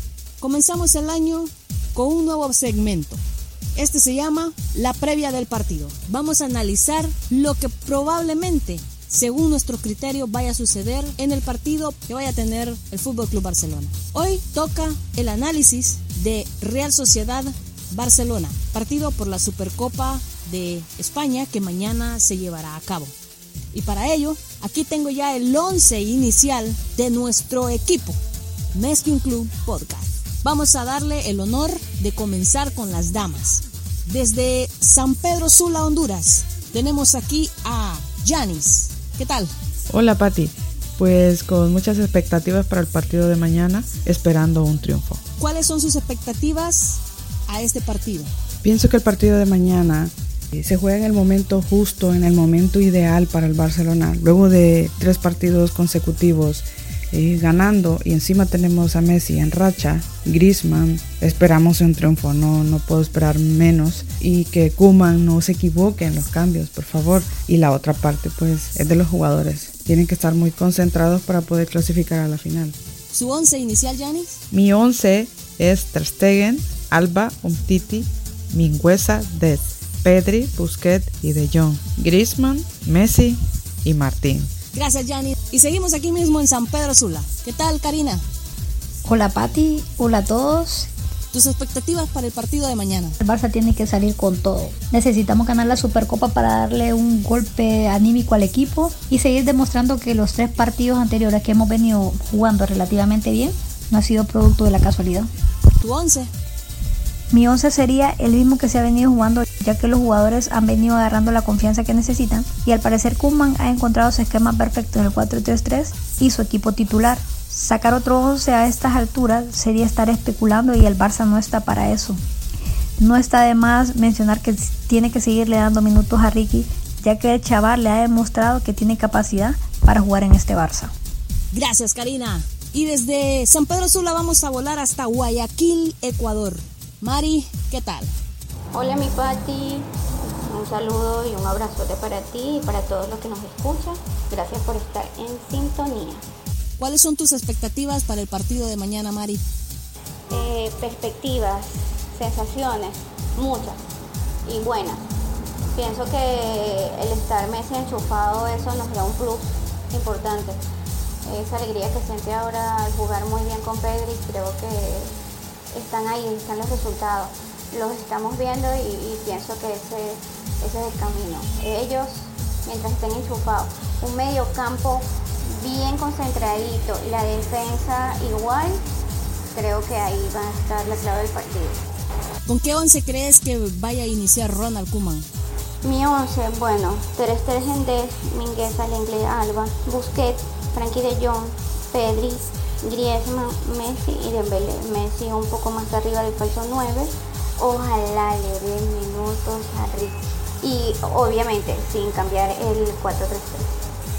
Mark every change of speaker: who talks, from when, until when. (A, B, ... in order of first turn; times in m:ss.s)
0:00.4-0:03.2 A
0:03.8-0:23.1 A
0:23.7-0:28.2 A
0:28.7-0:39.5 A
0:39.9-0:45.2 B
0:45.4-0:48.3 A
0:48.6-1:12.8 B
1:13.1-1:14.4 A
1:14.5-1:24.5 B
1:24.7-1:28.2 A
1:29.0-1:30.9 C
1:31.3-1:33.2 A
1:33.2-1:45.3 C
1:45.8-1:46.3 A
1:47.3-2:02.2 C
2:03.0-2:10.9 C
2:11.5-2:18.1 A
2:18.7-2:26.2 D
2:26.8-2:29.4 A
2:30.3-2:33.8 D
2:34.5-2:35.1 D
2:35.7-2:40.6 D
2:41.3-2:45.1 D
2:45.7-2:58.8 D
2:59.5-3:01.8 D
3:02.4-3:05.3 A
3:05.8-3:23.7 D